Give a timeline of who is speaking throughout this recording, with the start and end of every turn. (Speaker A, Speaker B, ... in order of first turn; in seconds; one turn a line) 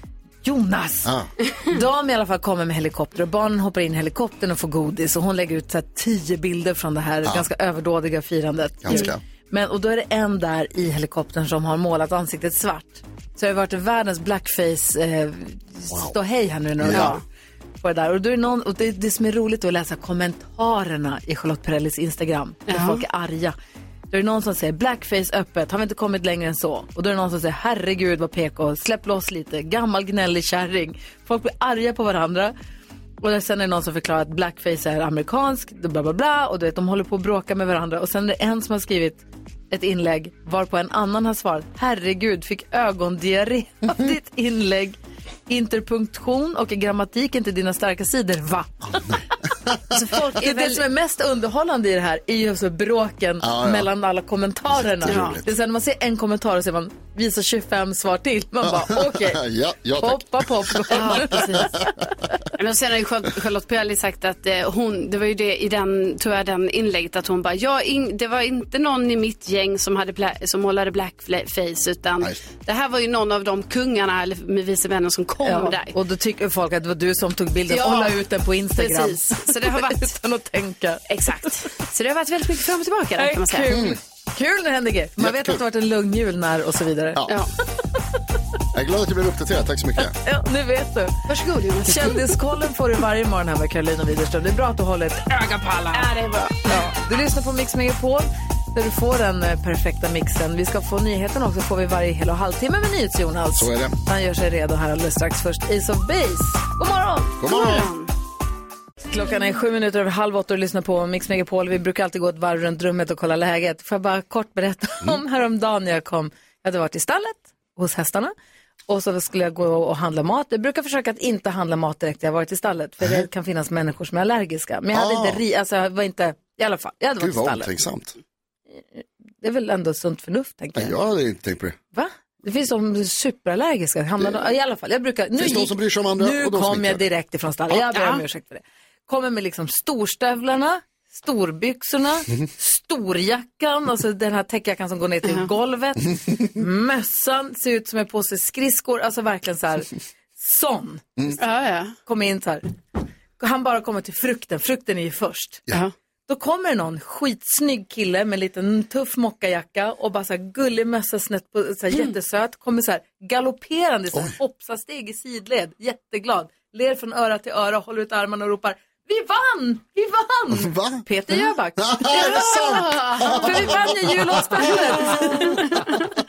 Speaker A: 0.4-1.1
Speaker B: 1.1-1.3
Speaker A: 1.7-17.2
Speaker B: 8.8-9.2
Speaker B: 16.8-17.2
Speaker C: 16.9-17.2
Speaker A: 17.8-23.6
Speaker C: 22.7-23.0
Speaker A: 24.1-32.5
Speaker A: 33.2-45.0
Speaker A: 45.5-49.1
Speaker B: 48.9-49.8
Speaker C: 49.9-50.8
Speaker A: 50.4-59.4
Speaker B: 53.4-53.9
Speaker B: 54.7-55.5
Speaker C: 55.1-55.4
Speaker B: 58.6-61.9
Speaker A: 60.0-61.8
Speaker C: 60.9-61.7
Speaker C: 62.6-75.9
Speaker A: 75.4-81.0
Speaker C: 77.7-78.2
Speaker C: 78.8-80.1
Speaker C: 81.1-83.8
Speaker A: 83.2-87.2
Speaker B: 83.7-84.0
Speaker B: 85.2-85.6
Speaker B: 88.7-90.2
Speaker A: 90.2-91.2
Speaker C: 91.3-92.3
Speaker A: 91.9-96.1
Speaker C: 95.5-96.6
Speaker A: 96.7-107.5
Speaker B: 103.5-104.0
Speaker B: 107.4-107.9
Speaker C: 107.5-108.1
Speaker A: 109.1-118.3
Speaker A: 118.9-127.7
Speaker B: 123.0-123.3
Speaker B: 124.9-125.4
Speaker B: 127.2-128.2
Speaker A: 128.7-131.0
Speaker B: 130.8-131.8
Speaker A: 131.9-151.4
Speaker B: 135.4-137.1
Speaker C: 137.7-138.2
Speaker C: 145.2-145.5
Speaker C: 151.4-151.9
Speaker A: 152.1-152.6
Speaker A: 153.4-155.7
Speaker A: 156.3-175.9
Speaker B: 170.5-171.0
Speaker B: 171.8-174.7
Speaker C: 172.1-173.8
Speaker C: 175.2-175.9